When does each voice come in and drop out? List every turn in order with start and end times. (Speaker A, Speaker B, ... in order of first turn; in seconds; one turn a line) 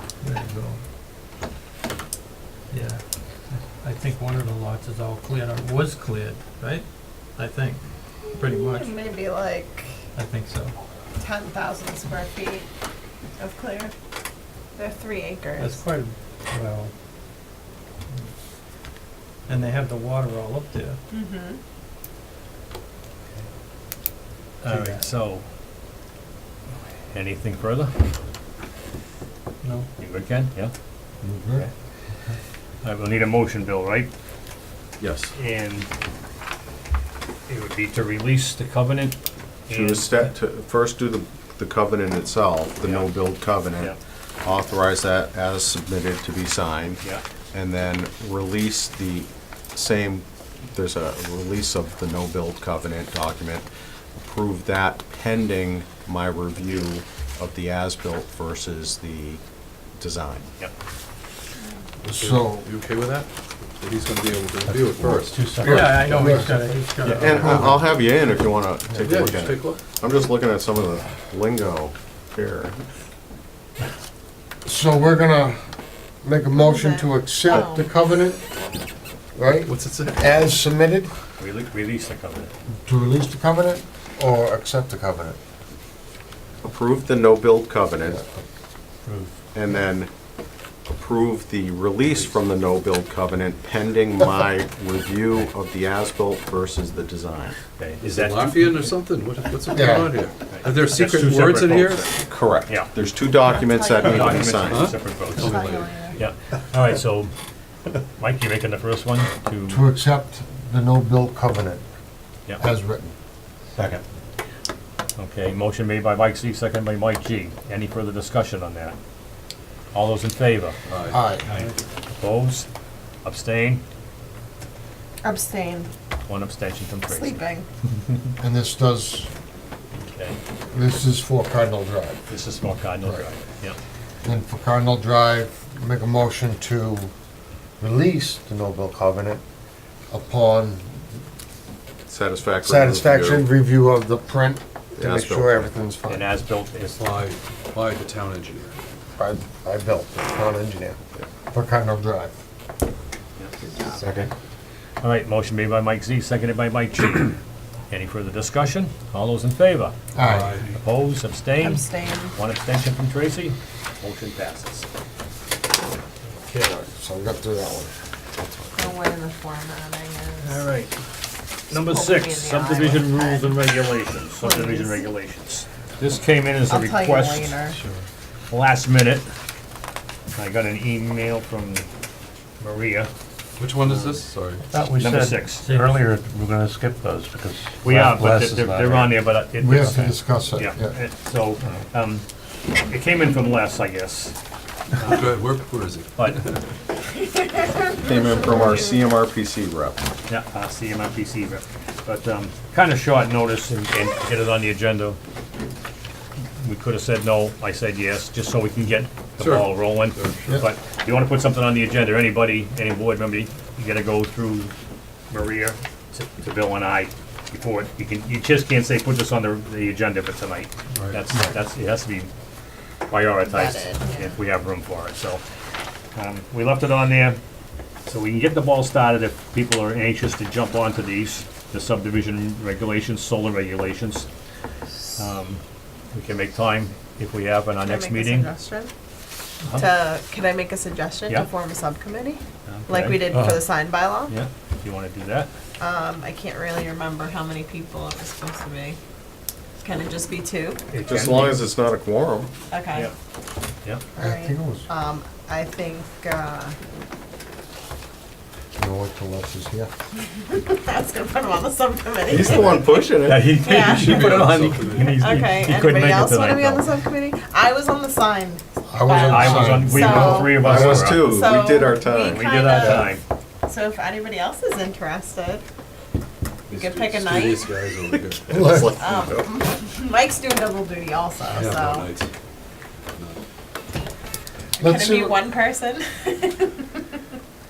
Speaker A: 0.2-0.8
Speaker A: 2.7-3.0
Speaker A: 3.6-8.9
Speaker B: 8.3-10.0
Speaker A: 10.1-10.8
Speaker B: 11.2-12.7
Speaker B: 13.4-13.9
Speaker B: 14.8-15.8
Speaker A: 15.6-16.9
Speaker A: 19.5-21.0
Speaker B: 21.1-21.6
Speaker C: 24.6-25.4
Speaker A: 24.6-25.0
Speaker C: 27.1-28.0
Speaker A: 29.6-29.9
Speaker C: 30.0-30.7
Speaker D: 31.2-31.6
Speaker C: 32.8-34.1
Speaker E: 35.0-35.3
Speaker C: 35.3-35.9
Speaker C: 37.5-39.2
Speaker C: 39.7-40.1
Speaker E: 39.7-47.0
Speaker C: 42.8-43.1
Speaker E: 47.5-53.6
Speaker E: 54.2-59.4
Speaker E: 60.0-60.5
Speaker F: 62.0-66.4
Speaker D: 62.0-62.7
Speaker A: 64.7-67.5
Speaker D: 65.5-66.9
Speaker F: 67.0-67.9
Speaker E: 67.2-72.8
Speaker F: 69.0-69.8
Speaker D: 74.7-75.6
Speaker D: 76.2-78.4
Speaker B: 76.6-77.9
Speaker D: 79.3-81.1
Speaker F: 79.6-80.4
Speaker C: 81.4-82.5
Speaker D: 82.8-85.4
Speaker E: 86.6-88.2
Speaker E: 89.5-90.1
Speaker E: 90.9-97.5
Speaker C: 97.8-98.9
Speaker F: 98.0-102.1
Speaker D: 99.7-100.2
Speaker C: 100.5-102.9
Speaker E: 102.2-104.9
Speaker B: 103.3-104.6
Speaker F: 104.0-106.2
Speaker C: 104.0-105.6
Speaker B: 105.3-106.2
Speaker C: 106.2-107.3
Speaker C: 108.2-109.8
Speaker D: 109.7-111.8
Speaker D: 112.6-113.1
Speaker C: 115.2-119.0
Speaker C: 119.9-120.8
Speaker F: 120.9-121.7
Speaker D: 121.1-121.5
Speaker C: 121.5-122.7
Speaker C: 123.2-123.8
Speaker B: 125.2-125.9
Speaker C: 126.2-127.4
Speaker B: 127.1-127.7
Speaker D: 128.4-129.3
Speaker C: 130.1-130.4
Speaker D: 130.7-132.2
Speaker C: 132.3-133.8
Speaker D: 134.2-137.1
Speaker D: 137.8-139.4
Speaker D: 140.1-141.0
Speaker E: 142.1-143.5
Speaker D: 142.6-146.3
Speaker E: 145.0-145.7
Speaker C: 146.1-147.0
Speaker F: 146.9-148.8
Speaker D: 149.2-151.0
Speaker D: 151.5-152.3
Speaker B: 153.7-154.0
Speaker E: 154.0-154.3
Speaker C: 155.0-157.4
Speaker C: 157.9-159.9
Speaker D: 160.1-160.5
Speaker F: 160.2-160.8
Speaker C: 160.7-164.9
Speaker B: 161.6-162.4
Speaker D: 166.5-167.9
Speaker B: 168.7-170.7
Speaker C: 170.4-170.9
Speaker B: 171.7-173.7
Speaker C: 171.7-177.6
Speaker B: 174.4-175.1
Speaker B: 176.6-177.8
Speaker F: 177.7-178.0
Speaker C: 178.5-179.2
Speaker C: 180.3-181.8
Speaker C: 182.6-183.1
Speaker F: 183.6-184.7
Speaker C: 183.8-184.2
Speaker A: 184.7-186.0
Speaker G: 184.9-189.0
Speaker C: 185.0-185.8
Speaker C: 187.8-192.2
Speaker D: 189.6-190.9
Speaker C: 192.8-194.3
Speaker C: 194.9-195.3
Speaker F: 195.0-196.6
Speaker C: 196.2-196.4
Speaker B: 197.1-199.1
Speaker E: 198.0-200.0
Speaker C: 200.3-205.2
Speaker C: 206.6-214.7
Speaker F: 209.4-210.4
Speaker C: 215.3-222.3
Speaker F: 220.9-221.2
Speaker C: 223.1-225.4
Speaker B: 223.5-224.4
Speaker C: 226.1-227.4
Speaker C: 228.1-234.2
Speaker C: 235.2-235.6
Speaker C: 236.1-238.5
Speaker B: 237.8-238.9
Speaker C: 239.6-239.9
Speaker B: 239.7-244.3
Speaker C: 242.7-243.4
Speaker F: 243.3-243.6
Speaker C: 244.3-245.5
Speaker B: 245.8-249.0
Speaker B: 249.8-250.8
Speaker C: 250.9-251.6
Speaker E: 251.1-252.5
Speaker B: 252.7-253.1
Speaker B: 254.2-256.8
Speaker D: 254.2-254.9
Speaker D: 258.8-259.9
Speaker B: 260.1-273.1
Speaker E: 262.3-263.5
Speaker C: 262.3-266.8
Speaker F: 262.3-262.6
Speaker F: 263.5-265.4
Speaker D: 268.9-271.2
Speaker C: 269.1-271.3
Speaker E: 270.5-272.6
Speaker C: 272.2-273.2
Speaker D: 272.8-273.1
Speaker B: 273.6-275.6
Speaker F: 276.7-278.9
Speaker B: 276.7-277.7
Speaker D: 278.5-278.9
Speaker E: 278.6-279.5
Speaker B: 278.8-282.1
Speaker F: 281.4-282.3
Speaker F: 283.1-283.4
Speaker B: 284.8-287.1
Speaker D: 284.8-285.4